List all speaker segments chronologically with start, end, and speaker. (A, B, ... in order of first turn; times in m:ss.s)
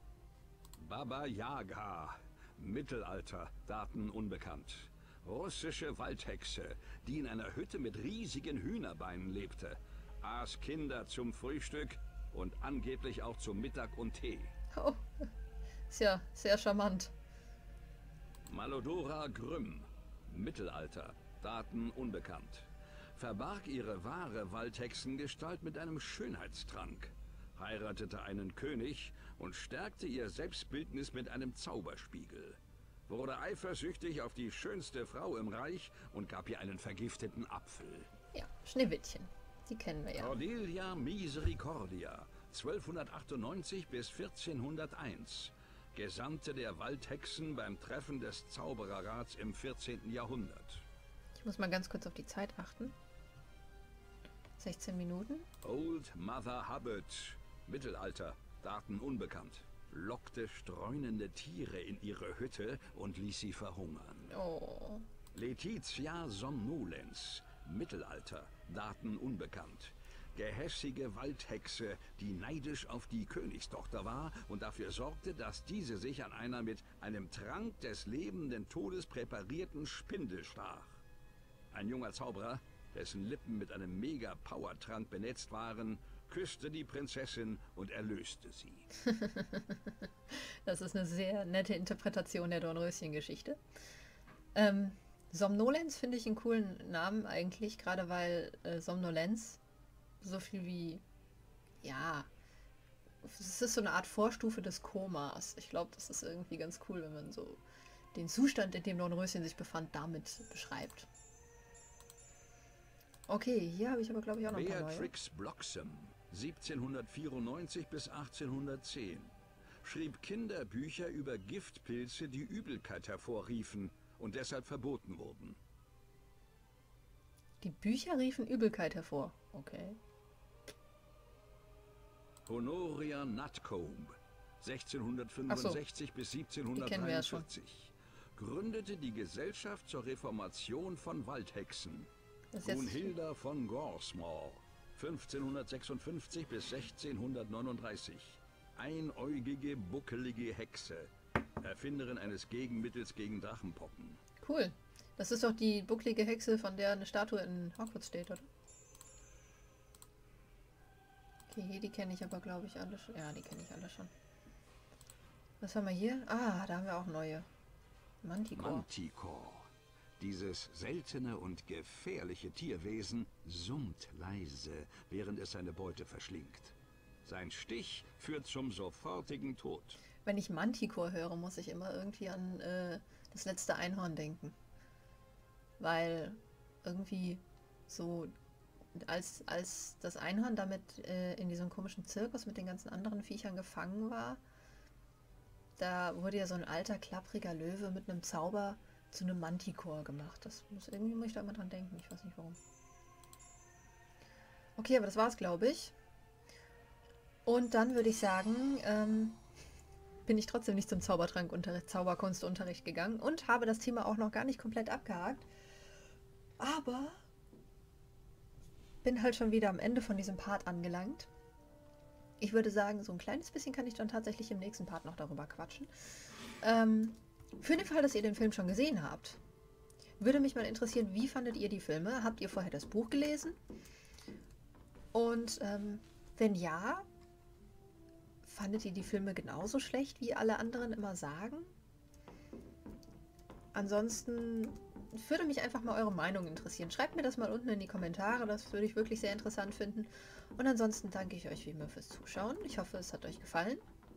0:00.8-0:14.5 A
0:14.8-0:15.0 B
0:15.9-0:17.1 B
0:18.5-0:32.6 A
0:33.1-0:38.1 A
0:38.3-0:40.4 B
0:40.2-0:50.8 A
0:51.4-0:53.0 B
0:54.6-0:55.5 B
0:55.6-1:04.3 A
1:04.3-1:05.1 B
1:05.3-1:21.0 A
1:21.7-1:28.9 A
1:29.1-1:29.8 B
1:30.6-1:33.6 B
1:34.6-1:39.6 B
1:40.2-1:41.0 B
1:41.8-1:42.3 B
1:43.2-1:47.6 B
1:48.1-1:51.1 B
1:53.3-1:55.1 B
1:54.5-2:05.6 A
2:07.6-2:10.0 B
2:12.5-2:22.1 A
2:15.5-2:15.8 B
2:16.7-2:17.5 B
2:22.5-2:23.1 B
2:22.6-2:31.1 A
2:31.6-2:34.2 A
2:34.4-2:38.5 B
2:41.5-2:44.1 B
2:45.6-2:47.5 B
2:48.2-2:48.9 B
2:48.6-2:49.7 A
2:50.2-2:56.7 A
2:57.2-3:00.0 A
3:00.2-3:04.6 B
3:05.8-3:08.3 B
3:09.0-3:14.4 B
3:15.8-3:22.6 B
3:24.8-3:26.0 B
3:27.5-3:29.4 B
3:30.3-3:35.5 B
3:36.6-3:37.2 B
3:39.0-3:41.3 B
3:42.4-3:45.9 B
3:46.6-3:49.4 B
3:50.2-3:53.6 B
3:55.1-3:57.1 B
3:58.4-4:01.7 B
4:03.7-4:13.8 B